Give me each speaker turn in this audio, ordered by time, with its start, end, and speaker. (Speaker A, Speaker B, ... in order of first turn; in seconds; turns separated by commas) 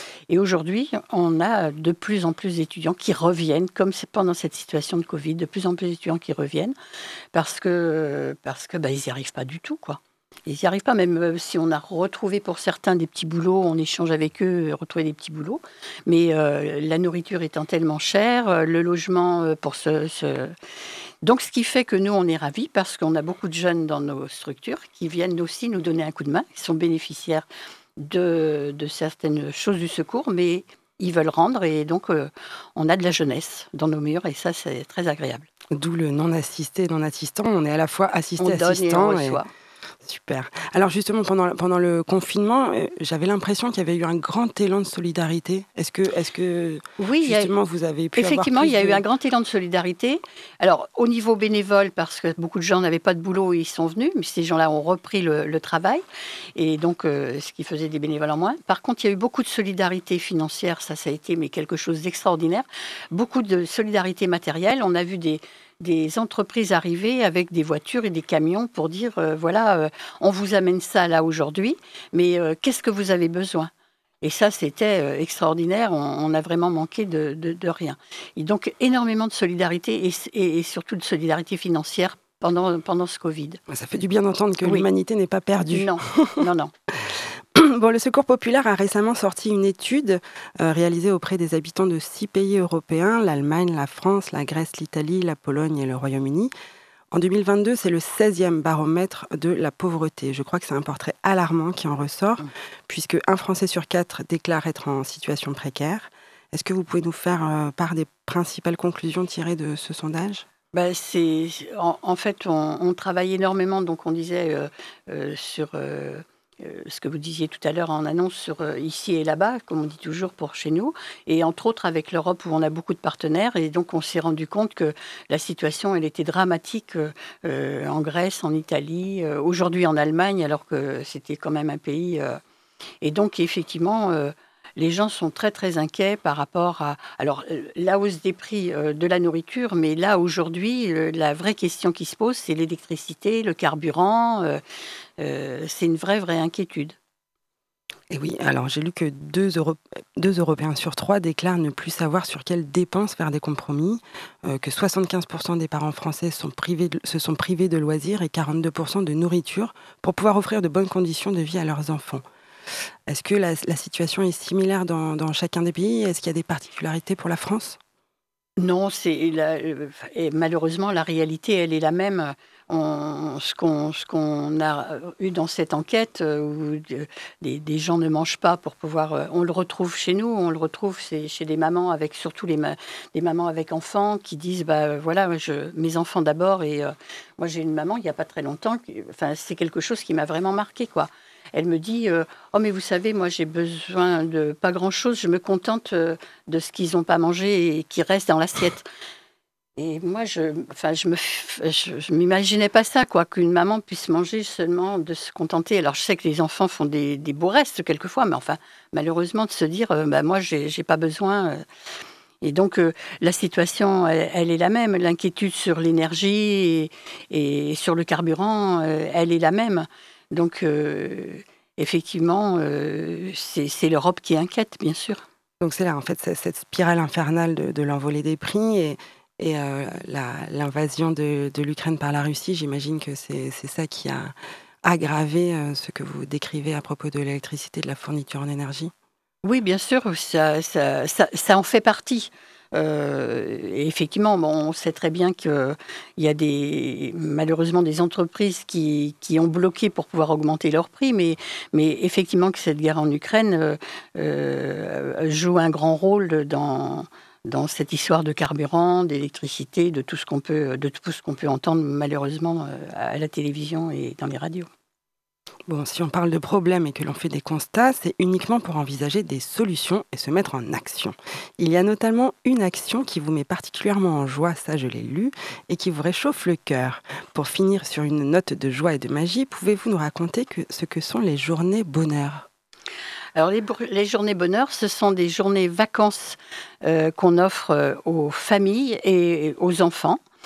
Speaker A: 0.3-6.8, Speaker A: 7.3-20.5, Speaker A: 21.2-27.5, Speaker A: 28.0-35.5, Speaker B: 35.7-39.4, Speaker A: 38.4-39.5, Speaker B: 40.0-49.0, Speaker A: 47.0-47.5, Speaker A: 48.1-56.0, Speaker A: 56.6-73.7, Speaker A: 74.2-83.6, Speaker B: 83.7-86.5, Speaker A: 85.7-86.7, Speaker B: 87.1-96.5, Speaker B: 97.1-110.5, Speaker A: 110.7-132.4, Speaker A: 133.0-144.6, Speaker A: 145.2-147.0, Speaker B: 148.1-162.2, Speaker B: 163.1-167.8, Speaker A: 168.6-198.9, Speaker A: 199.8-211.6, Speaker A: 212.4-225.2, Speaker B: 225.6-238.9, Speaker A: 239.4-264.7, Speaker B: 265.7-282.5, Speaker A: 283.4-290.2